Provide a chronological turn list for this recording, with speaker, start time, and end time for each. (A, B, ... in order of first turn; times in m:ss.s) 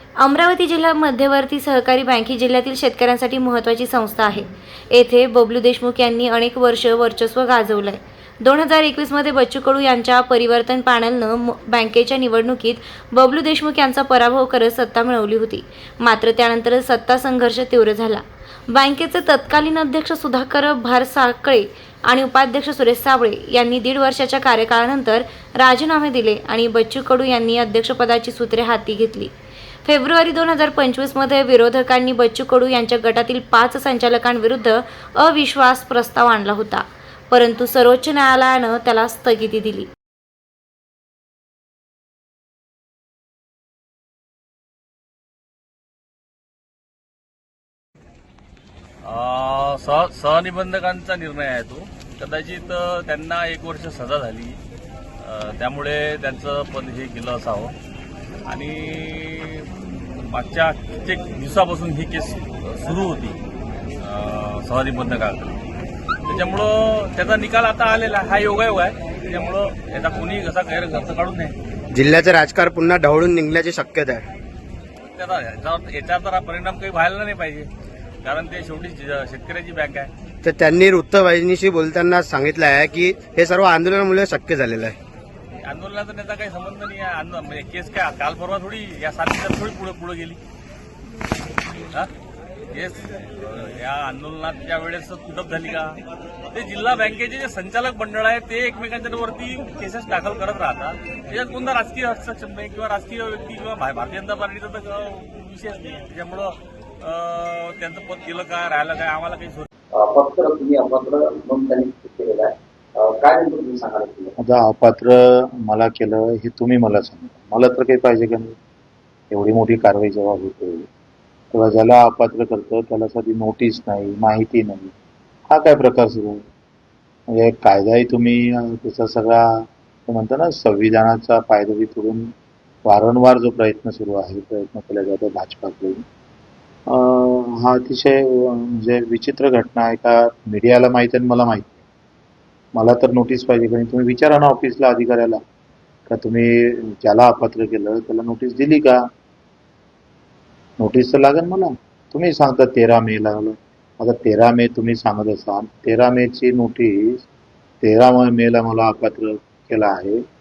0:00.2-0:29.3 A
0:29.8-0:39.9 A
0:49.0-0:54.6 B
0:55.2-0:57.7 B
0:58.5-0:59.7 B
1:00.2-1:03.4 B
1:04.0-1:05.6 B
1:06.2-1:11.5 B
1:11.9-1:14.2 C
1:15.1-1:17.7 B
1:18.2-1:20.1 B
1:20.4-1:25.0 C
1:25.6-1:30.4 B
1:32.7-1:35.9 B
1:36.5-1:49.7 B
1:50.0-1:54.3 D
1:54.4-1:58.5 E
1:59.3-2:00.9 E
2:01.5-2:04.9 E
2:05.5-2:06.4 E
2:07.3-2:12.3 E
2:12.8-2:16.0 E
2:16.9-2:21.8 E
2:22.7-2:25.4 E
2:26.1-2:29.0 E
2:30.8-2:37.2 E
2:37.8-2:40.2 E